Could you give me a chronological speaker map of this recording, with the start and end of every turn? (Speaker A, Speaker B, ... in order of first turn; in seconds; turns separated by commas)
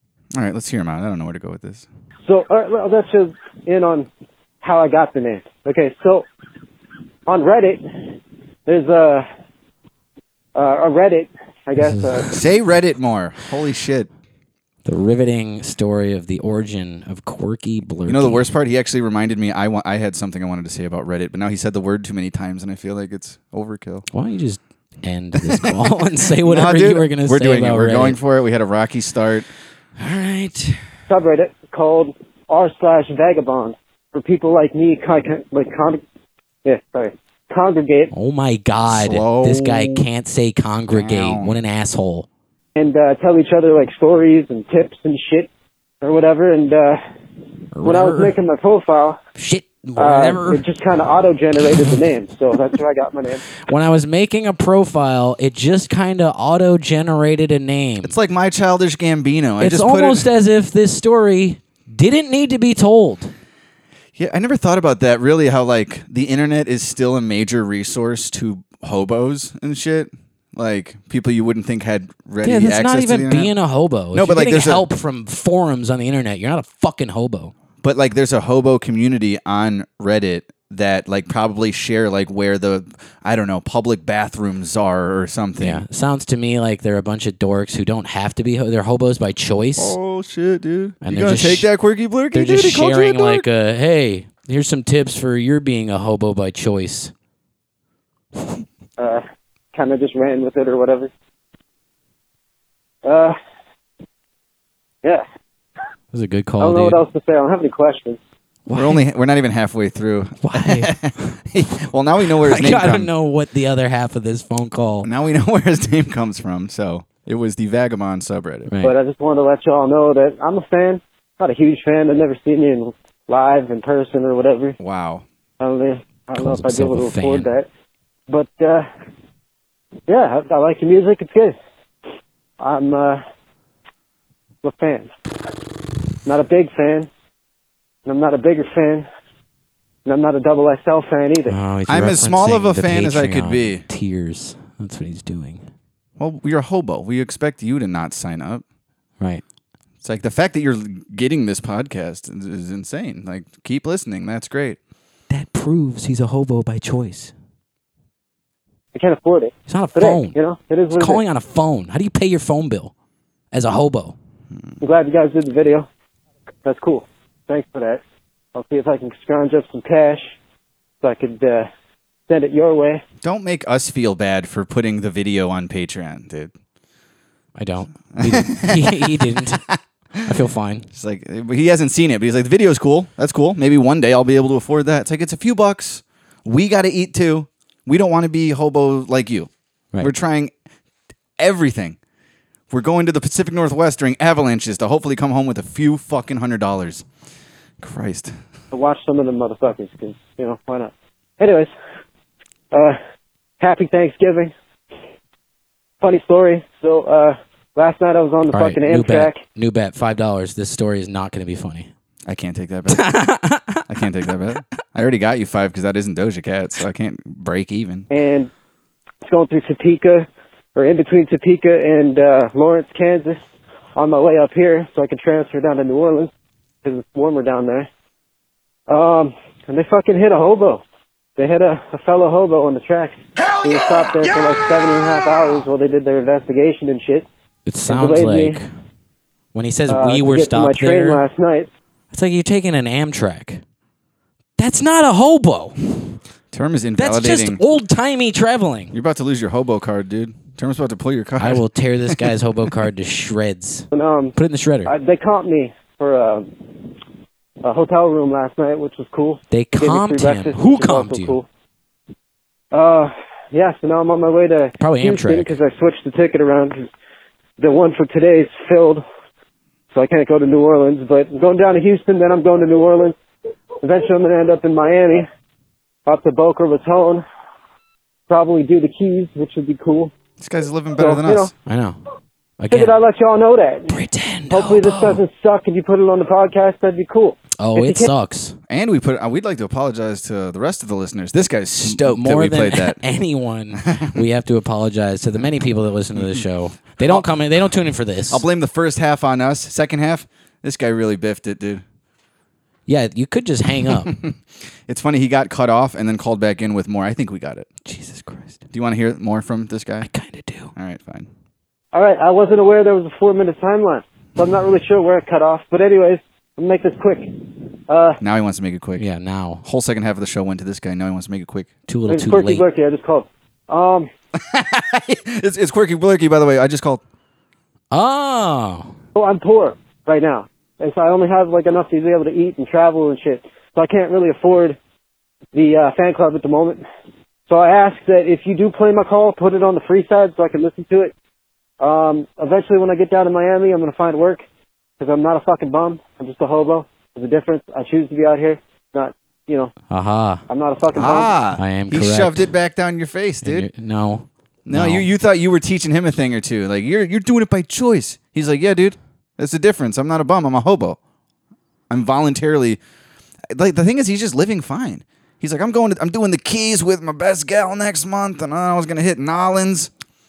Speaker A: 0.3-1.9, Speaker B: 2.3-4.1, Speaker B: 4.6-6.3, Speaker B: 7.3-8.1, Speaker B: 8.7-9.3, Speaker B: 10.6-12.3, Speaker C: 11.8-12.4, Speaker A: 12.3-14.1, Speaker C: 14.8-18.4, Speaker A: 18.1-24.1, Speaker C: 24.1-28.2, Speaker A: 25.4-25.8, Speaker A: 26.4-29.5, Speaker C: 30.0-30.8, Speaker B: 31.1-36.0, Speaker B: 36.6-38.1, Speaker C: 38.1-42.3, Speaker A: 38.9-40.1, Speaker A: 40.9-41.5, Speaker B: 42.8-45.5, Speaker B: 46.0-47.0, Speaker C: 47.7-48.4, Speaker B: 47.8-49.2, Speaker C: 49.4-50.6, Speaker B: 50.0-53.5, Speaker C: 53.7-58.1, Speaker A: 58.0-60.3, Speaker C: 59.6-63.3, Speaker A: 64.2-73.5, Speaker C: 72.4-77.5, Speaker A: 74.1-74.9, Speaker A: 77.8-85.8, Speaker C: 85.6-90.0, Speaker A: 89.8-93.5, Speaker C: 91.0-91.7, Speaker C: 92.3-97.1, Speaker B: 99.0-99.2, Speaker B: 99.7-101.1, Speaker B: 103.0-103.3, Speaker C: 106.1-107.0, Speaker B: 106.6-108.2, Speaker C: 108.7-109.0, Speaker A: 108.7-113.1, Speaker C: 110.4-110.9, Speaker C: 112.4-115.1, Speaker A: 115.0-118.7, Speaker C: 118.7-119.0, Speaker B: 118.8-124.8, Speaker A: 124.8-125.3, Speaker B: 125.6-127.7, Speaker C: 126.3-127.5, Speaker B: 128.3-128.9, Speaker B: 130.1-131.6, Speaker B: 132.6-133.2, Speaker B: 134.6-135.1, Speaker B: 136.3-137.1, Speaker B: 138.1-139.1, Speaker B: 140.1-141.6, Speaker C: 141.5-145.7, Speaker A: 141.9-143.8, Speaker A: 146.2-148.6, Speaker A: 150.0-154.8, Speaker C: 155.3-157.3, Speaker B: 158.9-161.2, Speaker C: 159.7-160.4, Speaker C: 160.9-162.9, Speaker C: 163.5-164.2, Speaker B: 164.8-165.9, Speaker B: 166.6-168.0, Speaker B: 168.6-170.3, Speaker B: 171.0-171.7, Speaker B: 172.3-173.0, Speaker A: 173.2-176.5, Speaker C: 177.6-180.9, Speaker A: 178.2-180.2, Speaker A: 180.9-190.5, Speaker A: 191.4-192.0, Speaker A: 192.7-197.1, Speaker A: 197.8-198.3, Speaker B: 198.7-201.7, Speaker B: 202.7-203.0, Speaker B: 203.6-204.5, Speaker B: 206.0-209.4, Speaker C: 208.5-211.9, Speaker A: 212.3-213.2, Speaker C: 212.9-213.8, Speaker A: 213.9-218.1, Speaker B: 218.1-218.5, Speaker B: 219.2-223.4, Speaker B: 224.0-226.3, Speaker B: 226.8-227.9, Speaker B: 228.9-230.8, Speaker B: 231.4-237.3, Speaker C: 237.7-238.7, Speaker B: 237.9-238.6, Speaker C: 239.5-241.2, Speaker B: 239.9-241.7, Speaker C: 242.1-243.6, Speaker C: 244.6-246.0, Speaker A: 246.5-247.6, Speaker C: 247.0-248.9, Speaker A: 248.9-252.3, Speaker C: 251.4-254.9, Speaker B: 253.9-256.5, Speaker B: 257.6-261.5, Speaker C: 259.5-261.4, Speaker B: 262.7-266.9, Speaker C: 264.8-265.6, Speaker B: 267.6-269.0, Speaker B: 269.9-273.2, Speaker B: 273.8-275.3, Speaker B: 276.1-277.2, Speaker B: 278.3-280.1, Speaker A: 280.4-281.5, Speaker B: 281.0-281.5, Speaker C: 281.7-282.0, Speaker C: 282.6-283.0, Speaker B: 282.7-288.1, Speaker C: 283.9-285.2, Speaker C: 287.6-288.6, Speaker A: 288.7-293.0, Speaker C: 291.8-298.4, Speaker A: 293.8-294.2, Speaker A: 296.2-296.4, Speaker A: 297.0-297.3, Speaker A: 298.3-301.8, Speaker C: 302.9-304.2, Speaker A: 303.9-304.4, Speaker A: 304.9-307.7, Speaker C: 307.9-308.6, Speaker A: 308.7-310.1, Speaker C: 310.0-310.7, Speaker A: 310.8-311.3, Speaker B: 311.9-318.2, Speaker A: 318.2-319.1, Speaker C: 319.0-319.6, Speaker A: 319.6-321.7, Speaker C: 321.9-322.6, Speaker B: 322.1-324.1, Speaker A: 324.4-327.0, Speaker C: 327.9-329.0, Speaker B: 329.1-334.8, Speaker B: 335.5-336.8, Speaker B: 337.5-341.1, Speaker B: 341.8-344.4, Speaker B: 345.0-349.7, Speaker C: 349.9-350.4, Speaker B: 350.5-351.3, Speaker A: 350.9-353.7, Speaker C: 351.6-352.5, Speaker C: 353.4-355.1, Speaker A: 354.7-361.0, Speaker A: 361.9-362.8, Speaker A: 363.5-369.9